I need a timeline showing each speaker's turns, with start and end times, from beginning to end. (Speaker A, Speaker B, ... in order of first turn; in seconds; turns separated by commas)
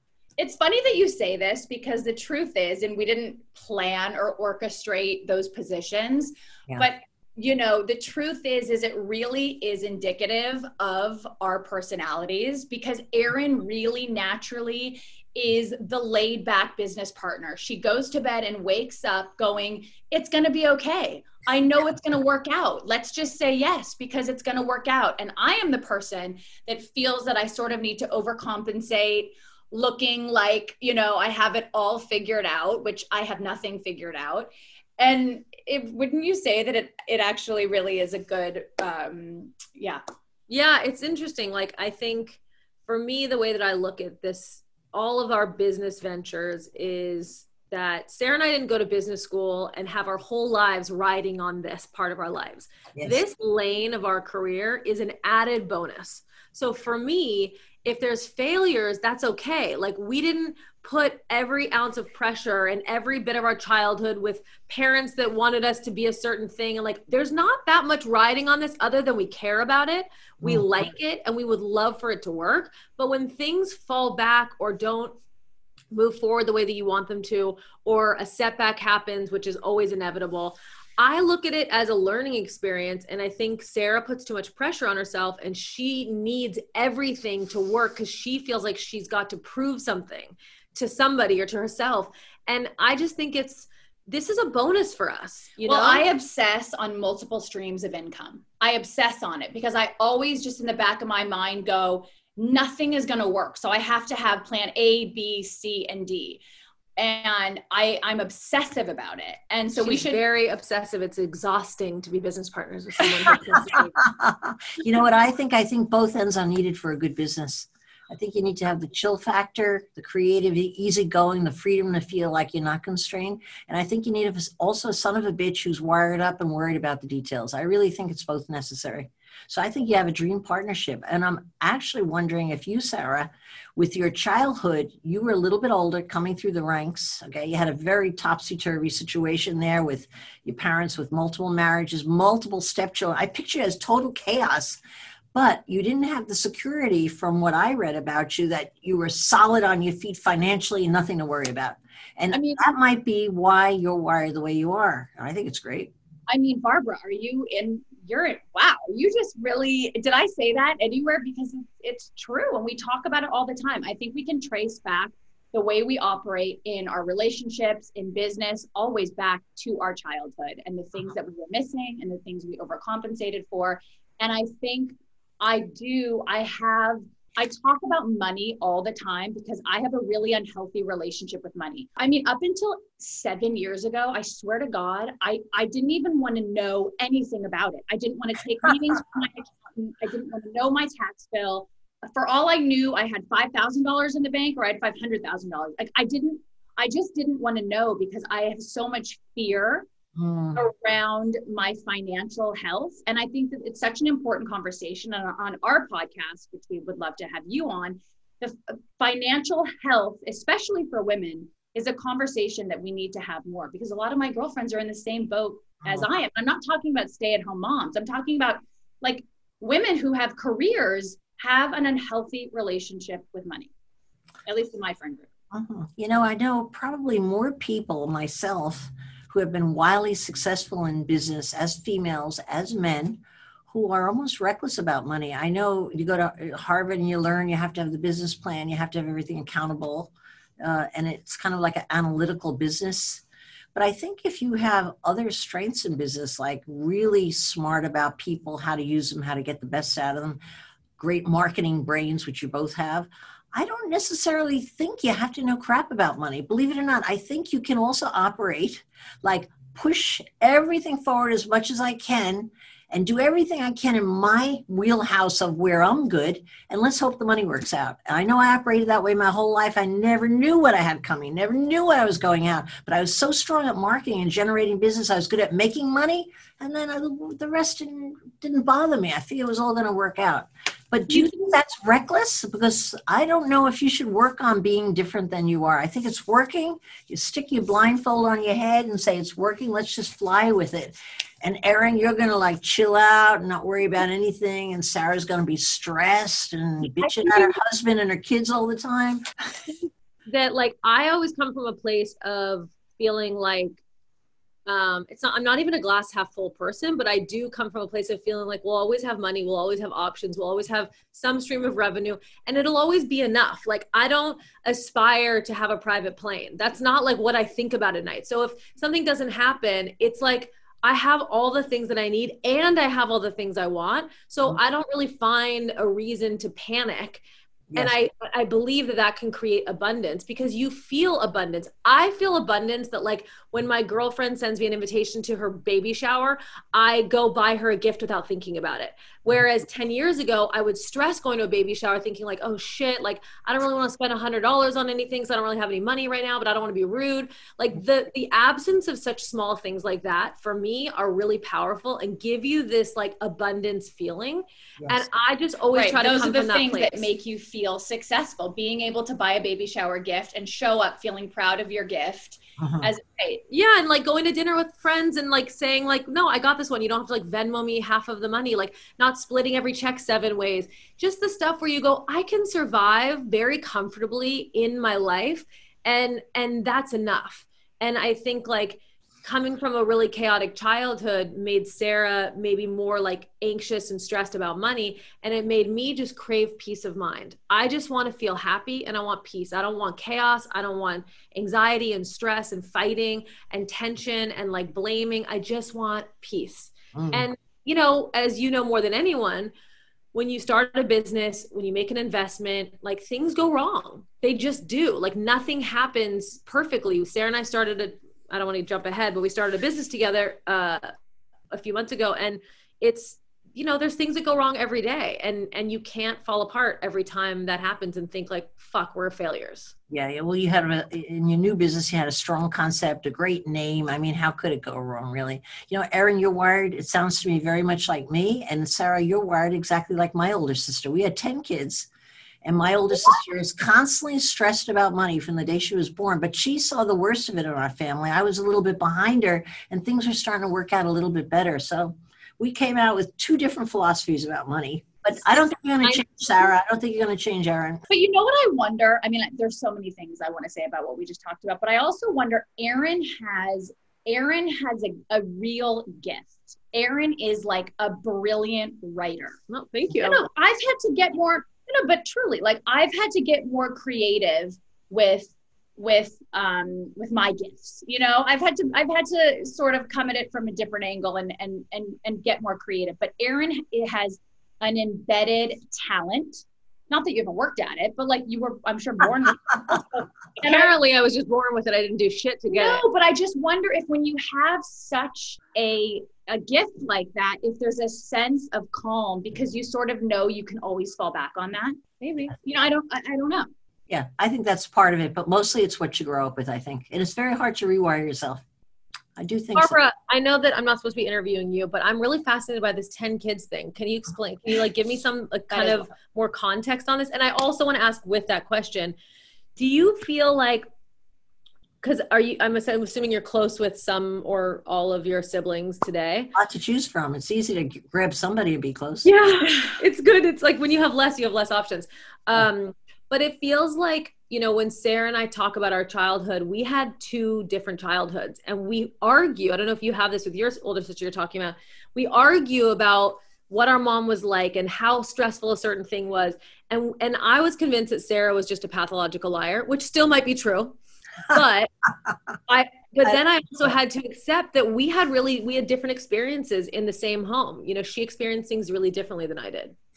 Speaker A: 0.4-40.0, Speaker B: 40.5-75.2, Speaker C: 53.0-53.2, Speaker C: 70.4-70.7, Speaker B: 75.9-96.1, Speaker A: 95.6-106.4, Speaker A: 107.0-110.2, Speaker B: 109.7-114.0, Speaker C: 113.6-144.8, Speaker C: 145.3-155.9, Speaker A: 152.3-152.6, Speaker A: 156.3-199.9, Speaker C: 200.2-200.6, Speaker A: 200.6-223.7, Speaker A: 224.5-225.3, Speaker C: 225.5-243.2, Speaker C: 243.8-250.4, Speaker C: 251.0-299.2, Speaker B: 297.0-297.5, Speaker B: 300.3-303.8, Speaker B: 304.7-327.2, Speaker B: 327.8-357.1, Speaker A: 355.7-363.4, Speaker C: 362.6-362.9, Speaker B: 363.5-399.5, Speaker C: 396.9-397.3, Speaker B: 400.1-410.9, Speaker B: 411.5-419.7, Speaker C: 419.9-431.9, Speaker C: 432.4-447.8, Speaker A: 447.9-459.4, Speaker B: 459.5-460.3, Speaker A: 460.0-480.7, Speaker B: 480.4-482.8, Speaker A: 482.5-491.8, Speaker B: 492.0-492.4, Speaker A: 492.4-493.5, Speaker C: 493.9-498.4, Speaker C: 499.2-499.8, Speaker B: 499.6-509.0, Speaker A: 505.5-505.9, Speaker B: 509.6-510.7, Speaker B: 511.8-516.3, Speaker C: 516.4-519.1, Speaker B: 519.0-540.8, Speaker B: 541.3-541.7, Speaker B: 542.5-549.7